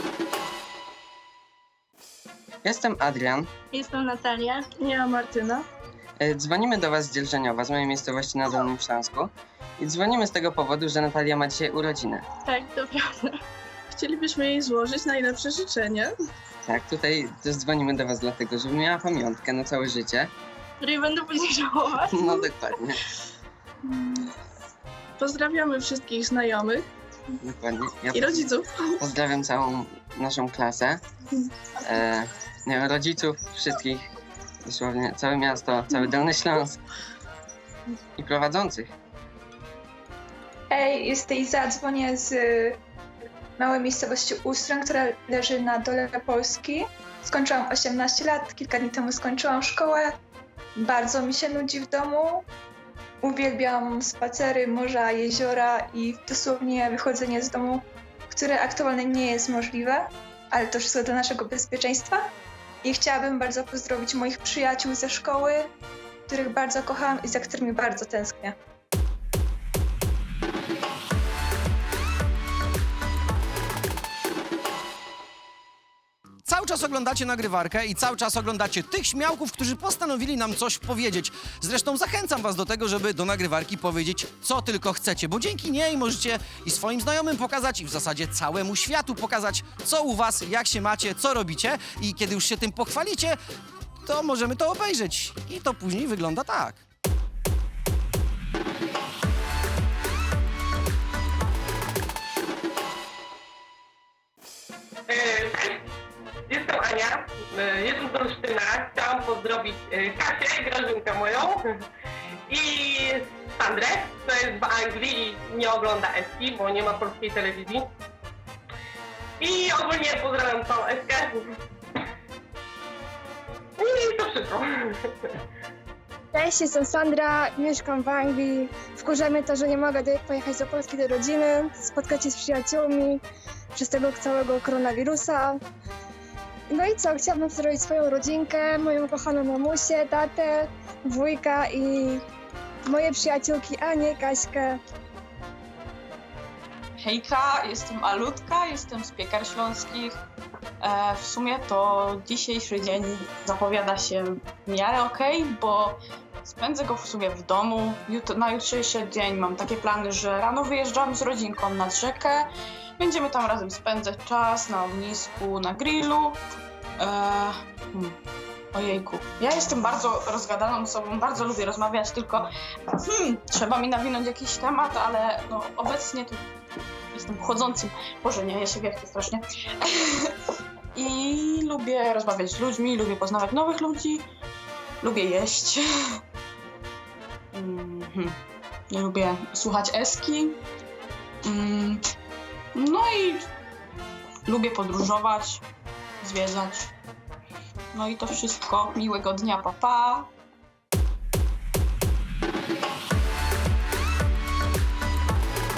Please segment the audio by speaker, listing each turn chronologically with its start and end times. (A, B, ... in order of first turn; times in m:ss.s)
0:02.6-0:03.5 A
0:03.7-0:04.8 B
0:04.8-0:05.6 C
0:06.2-0:12.2 A
0:12.4-0:13.4 B
0:13.9-0:16.1 C
0:16.7-0:20.3 A
0:20.8-0:22.5 B
0:22.1-0:22.9 A
0:25.2-0:26.8 C
0:27.4-0:31.0 A
0:28.2-0:28.6 B
0:31.8-0:34.1 A
0:34.6-0:36.8 A
0:38.2-0:38.9 A
0:40.7-0:42.8 D
0:43.6-0:50.1 D
0:50.8-0:52.4 D
0:53.2-1:02.2 D
1:02.8-1:05.7 D
1:06.3-1:08.6 D
1:16.5-1:33.4 E
1:34.0-1:36.8 E
1:45.1-1:45.8 F
1:46.5-1:51.6 F
1:52.5-1:57.9 F
1:59.4-2:01.4 F
2:03.8-2:05.1 F
2:06.3-2:13.2 G
2:13.8-2:15.6 G
2:16.7-2:22.2 G
2:22.9-2:24.7 G
2:27.0-2:30.1 H
2:30.8-2:42.5 H
2:43.0-2:46.4 H
2:47.0-2:48.0 H
2:48.8-2:52.5 H
2:53.4-2:56.4 H
2:57.1-2:59.4 H
3:01.0-3:04.2 H
3:05.0-3:05.8 H
3:07.6-3:08.2 H
3:08.9-3:10.6 H
3:11.5-3:12.0 H
3:12.8-3:13.5 H
3:14.5-3:15.6 H
3:16.2-3:16.9 H
3:18.0-3:20.3 H